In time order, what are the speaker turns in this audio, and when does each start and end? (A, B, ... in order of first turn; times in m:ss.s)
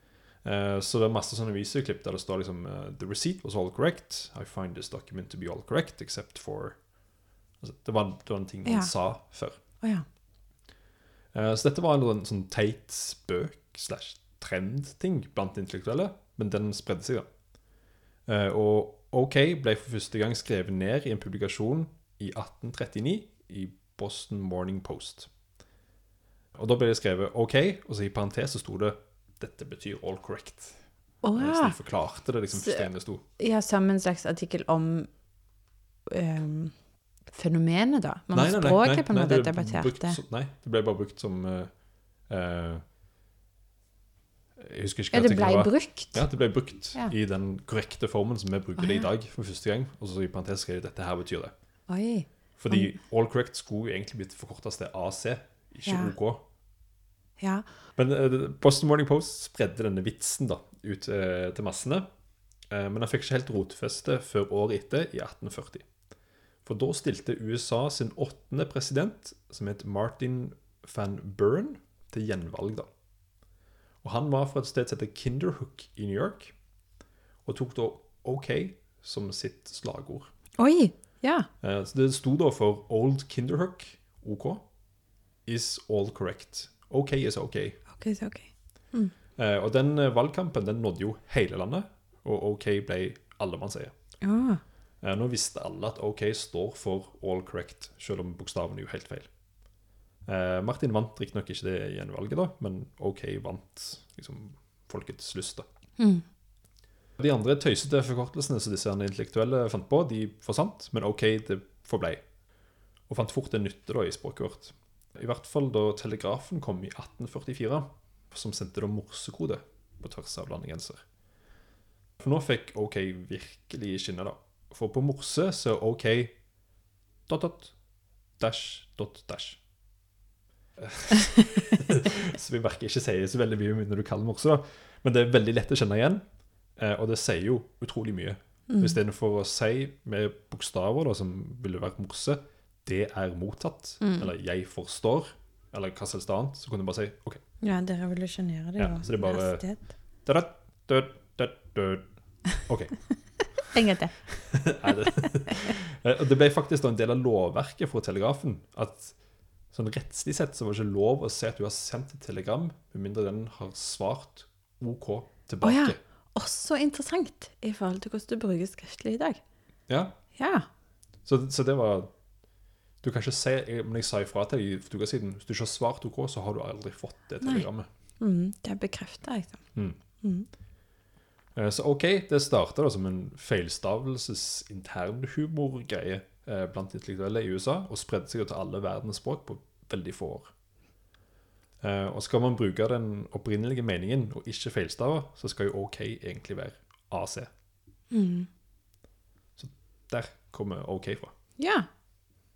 0:00.4-0:06.8 A
0:07.6-0:09.6 A
0:08.6-0:08.9 B
0:11.3-0:17.3 A
0:18.3-0:25.3 A
0:26.6-0:30.8 A
0:31.2-0:31.8 B
0:31.4-0:33.2 A
0:32.5-0:35.1 B
0:36.1-0:36.7 B
0:37.3-0:40.2 B
0:38.3-0:41.7 A
0:42.3-0:42.8 A
0:44.6-0:51.5 A
0:45.1-0:46.2 B
0:48.8-0:49.1 B
0:51.9-0:52.9 B
0:52.6-0:56.4 A
0:55.9-0:56.1 B
0:57.4-0:57.7 B
0:58.0-1:02.1 A
1:02.7-1:05.9 A
1:06.6-1:12.9 A
1:14.0-1:16.6 A
1:17.5-1:20.3 A
1:20.6-1:21.5 B
1:21.6-1:24.6 A
1:25.5-1:27.8 A
1:28.0-1:29.1 B
1:29.4-1:33.9 A
1:34.2-1:34.6 B
1:35.0-1:39.3 A
1:40.3-1:45.7 A
1:46.0-1:46.2 B
1:47.2-1:52.2 A
1:53.1-2:01.0 A
2:02.2-2:06.3 A
2:07.3-2:07.8 A
2:08.4-2:09.6 A
2:10.8-2:16.2 A
2:16.8-2:27.4 A
2:18.7-2:19.0 B
2:24.0-2:24.3 B
2:27.6-2:29.8 B
2:28.8-2:29.6 A
2:30.2-2:32.1 A
2:32.6-2:33.0 A
2:33.7-2:34.2 B
2:34.5-2:39.2 A
2:39.7-2:46.0 A
2:45.6-2:49.4 B
2:49.9-2:50.1 A
2:50.4-2:50.7 B
2:51.2-2:52.1 A
2:53.0-2:57.9 A
2:57.4-2:57.7 B
2:58.2-2:59.6 B
3:00.2-3:00.5 B
3:01.6-3:10.5 A
3:11.8-3:17.5 A
3:18.1-3:18.5 B
3:19.6-3:21.3 A
3:21.6-3:21.9 B